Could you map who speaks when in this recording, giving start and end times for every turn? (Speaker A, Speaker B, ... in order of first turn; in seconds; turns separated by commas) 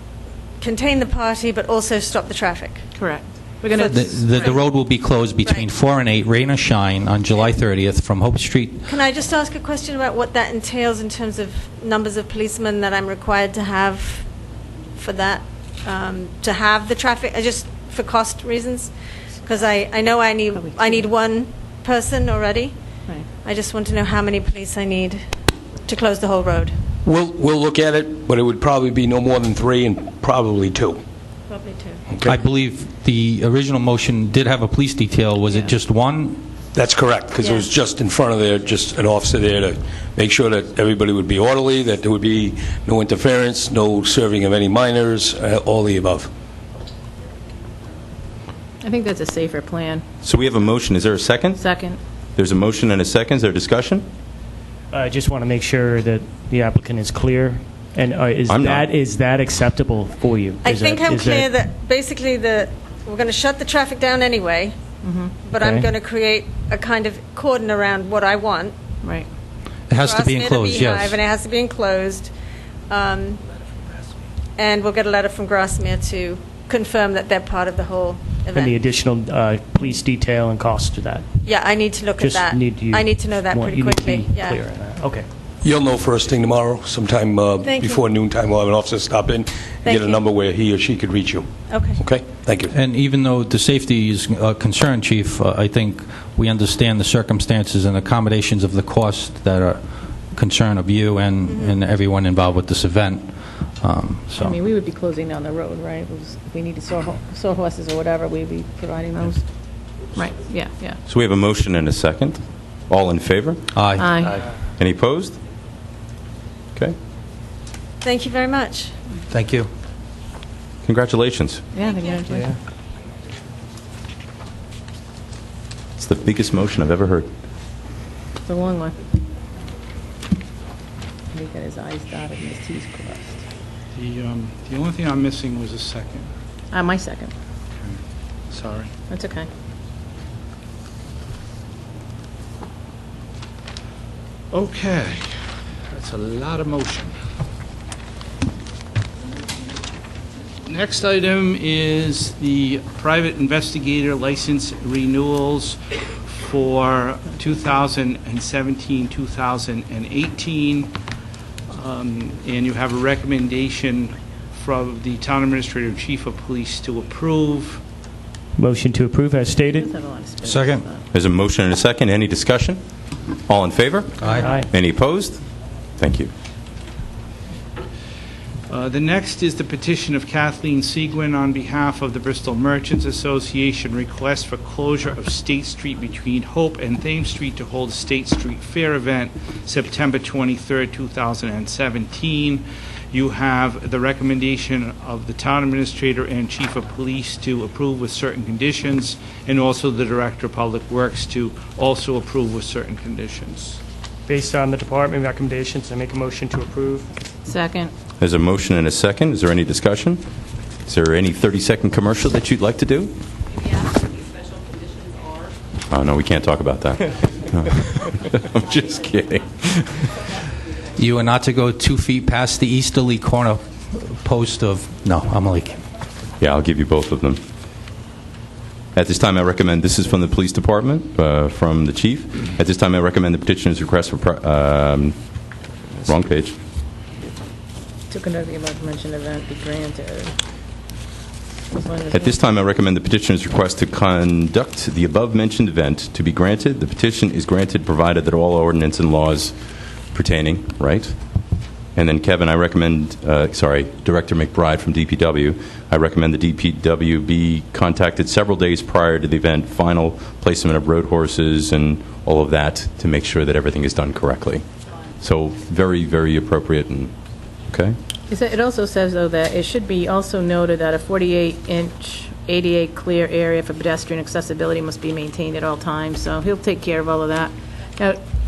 Speaker A: 0.6-2.9, Speaker A: 3.6-4.6, Speaker B: 3.9-8.9, Speaker A: 8.8-14.3, Speaker A: 14.9-25.3, Speaker C: 20.5-21.1, Speaker A: 25.8-26.8, Speaker D: 27.0-31.0, Speaker A: 31.5-32.0, Speaker D: 32.1-32.4, Speaker B: 32.2-36.4, Speaker D: 36.7-46.3, Speaker A: 37.4-37.7, Speaker C: 48.8-50.0, Speaker E: 50.2-51.6, Speaker C: 51.6-52.0, Speaker E: 52.4-54.1, Speaker F: 54.9-61.5, Speaker E: 58.5-58.9, Speaker A: 60.6-64.8, Speaker C: 65.0-65.3, Speaker A: 65.4-68.7, Speaker F: 65.6-65.9, Speaker B: 69.9-71.2, Speaker A: 69.9-72.3, Speaker A: 72.9-73.4, Speaker A: 74.6-78.7, Speaker F: 78.5-81.2, Speaker A: 81.4-84.6, Speaker F: 82.2-85.3, Speaker D: 85.6-91.5, Speaker A: 87.6-88.0, Speaker A: 89.8-90.2, Speaker A: 91.7-92.0, Speaker D: 92.0-92.7, Speaker B: 92.7-99.8, Speaker B: 100.3-104.6, Speaker A: 101.5-101.7, Speaker C: 104.4-109.4, Speaker C: 110.1-111.0, Speaker E: 111.1-113.6, Speaker B: 113.7-114.1, Speaker C: 114.0-114.3, Speaker E: 114.8-115.4, Speaker A: 118.0-118.9, Speaker B: 119.3-119.7, Speaker E: 120.8-121.6, Speaker C: 121.8-122.4, Speaker E: 126.0-127.3, Speaker C: 128.4-128.9, Speaker C: 131.3-133.4, Speaker G: 133.9-136.3, Speaker C: 136.7-137.3, Speaker G: 138.5-138.9, Speaker C: 139.1-139.5, Speaker G: 144.5-145.4, Speaker G: 145.9-147.1, Speaker G: 150.6-160.9, Speaker G: 161.7-167.8, Speaker F: 168.6-169.8, Speaker C: 169.7-171.0, Speaker B: 170.4-170.8, Speaker E: 171.1-172.8, Speaker E: 173.5-175.4, Speaker B: 174.2-174.6, Speaker F: 174.4-174.7, Speaker E: 176.0-176.3, Speaker G: 178.7-203.8, Speaker F: 204.3-207.1, Speaker C: 207.5-207.9, Speaker E: 208.2-210.2, Speaker E: 210.8-213.1, Speaker E: 215.9-220.1, Speaker B: 220.9-225.8, Speaker E: 226.4-227.4, Speaker E: 228.9-235.2, Speaker E: 236.1-236.6, Speaker C: 238.1-240.3, Speaker C: 241.7-242.4, Speaker E: 242.1-249.5, Speaker E: 250.1-251.2, Speaker E: 251.9-264.6, Speaker E: 265.2-267.1, Speaker E: 267.7-267.9, Speaker C: 268.3-278.2